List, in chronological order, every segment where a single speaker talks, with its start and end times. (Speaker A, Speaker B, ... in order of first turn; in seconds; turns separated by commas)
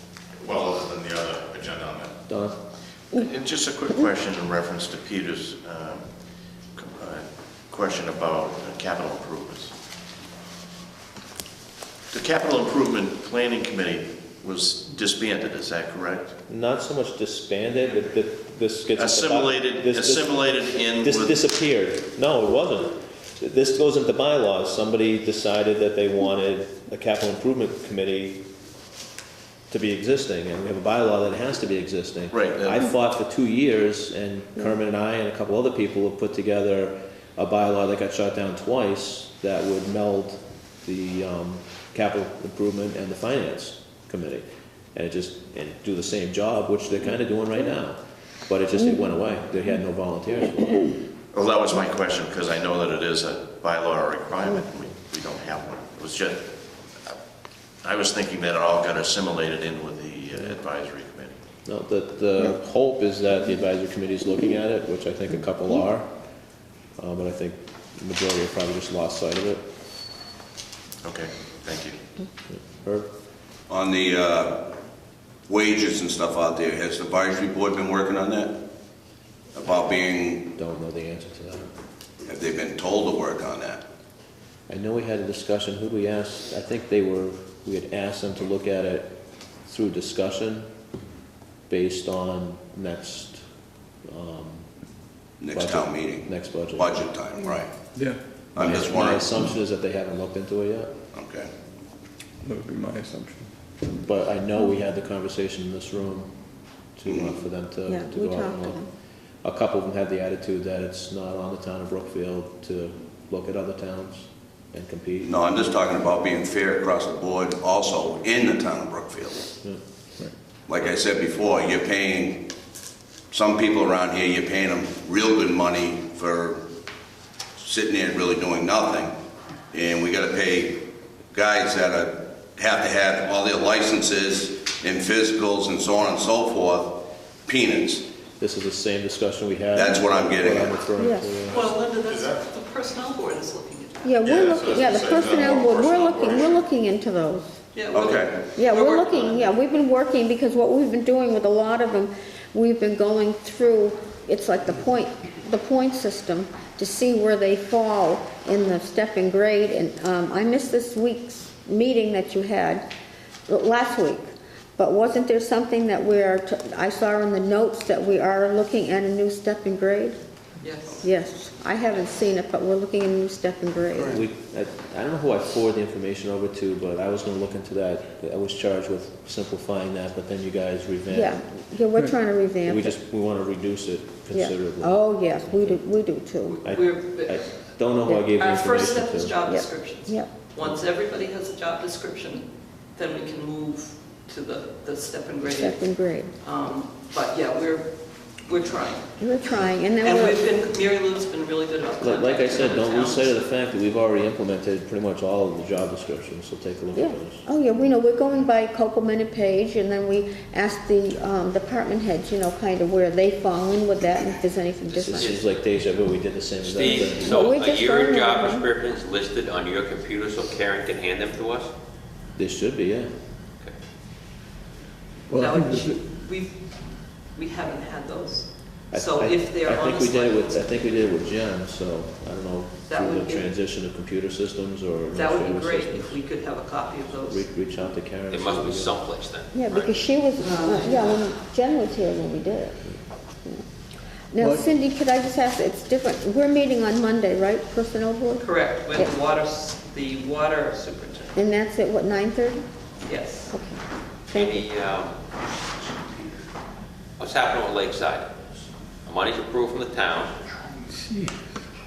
Speaker A: 0.3-2.2, Speaker B: 2.3-2.6, Speaker C: 3.1-6.1, Speaker C: 6.8-9.7, Speaker C: 12.1-16.4, Speaker B: 16.5-28.5, Speaker C: 18.9-21.5, Speaker B: 29.7-50.9, Speaker C: 32.3-32.8, Speaker C: 51.3-57.2, Speaker C: 57.8-61.4, Speaker B: 61.6-66.1, Speaker B: 67.0-69.7, Speaker C: 71.0-72.0, Speaker B: 72.5-73.1, Speaker D: 73.7-74.7, Speaker D: 75.5-78.7, Speaker D: 79.5-80.5, Speaker B: 80.5-81.7, Speaker D: 82.2-83.8, Speaker B: 84.7-90.7, Speaker B: 91.7-93.5, Speaker B: 94.1-94.7, Speaker D: 95.4-97.7, Speaker B: 95.5-97.0, Speaker D: 98.5-99.3, Speaker B: 98.6-100.9, Speaker D: 101.1-101.5, Speaker E: 102.4-103.5, Speaker B: 104.0-106.3, Speaker B: 107.0-108.8, Speaker D: 107.1-107.3, Speaker F: 107.9-108.9, Speaker B: 109.4-115.4, Speaker D: 115.2-119.6, Speaker D: 120.7-122.5, Speaker D: 123.3-126.6, Speaker D: 127.6-129.2, Speaker D: 129.7-138.1, Speaker B: 138.4-141.6, Speaker D: 139.7-140.8, Speaker F: 141.0-141.4, Speaker A: 141.5-142.4, Speaker G: 141.5-144.2, Speaker F: 144.0-147.6, Speaker A: 144.2-146.6, Speaker G: 147.7-149.5, Speaker D: 147.9-148.4, Speaker F: 148.6-162.9, Speaker F: 163.5-170.2, Speaker G: 170.6-171.1, Speaker F: 171.0-174.2, Speaker B: 174.0-181.4, Speaker F: 181.1-183.0, Speaker B: 182.7-185.8, Speaker F: 184.3-186.6, Speaker G: 186.4-187.5, Speaker B: 186.6-189.4, Speaker G: 188.4-199.1, Speaker F: 189.4-190.3, Speaker F: 195.4-196.3, Speaker F: 199.2-200.5, Speaker G: 200.0-203.3, Speaker B: 202.0-207.4, Speaker F: 206.9-215.4, Speaker B: 215.0-217.4, Speaker H: 215.0-215.4, Speaker H: 216.6-221.7, Speaker F: 217.2-218.7, Speaker B: 222.3-223.1, Speaker E: 225.3-226.0, Speaker G: 225.3-226.6, Speaker G: 227.3-231.1, Speaker B: 228.9-236.2, Speaker G: 232.9-233.5, Speaker G: 235.1-237.5, Speaker B: 237.3-238.9, Speaker H: 238.3-240.1, Speaker F: 239.5-243.6, Speaker G: 240.4-241.3, Speaker F: 244.3-249.1, Speaker E: 244.4-244.7, Speaker G: 248.4-251.3, Speaker F: 251.3-252.6, Speaker G: 253.0-253.6, Speaker F: 253.5-253.8, Speaker H: 254.3-255.2, Speaker F: 254.3-254.7, Speaker H: 257.2-258.3, Speaker H: 259.1-260.3, Speaker E: 260.9-261.3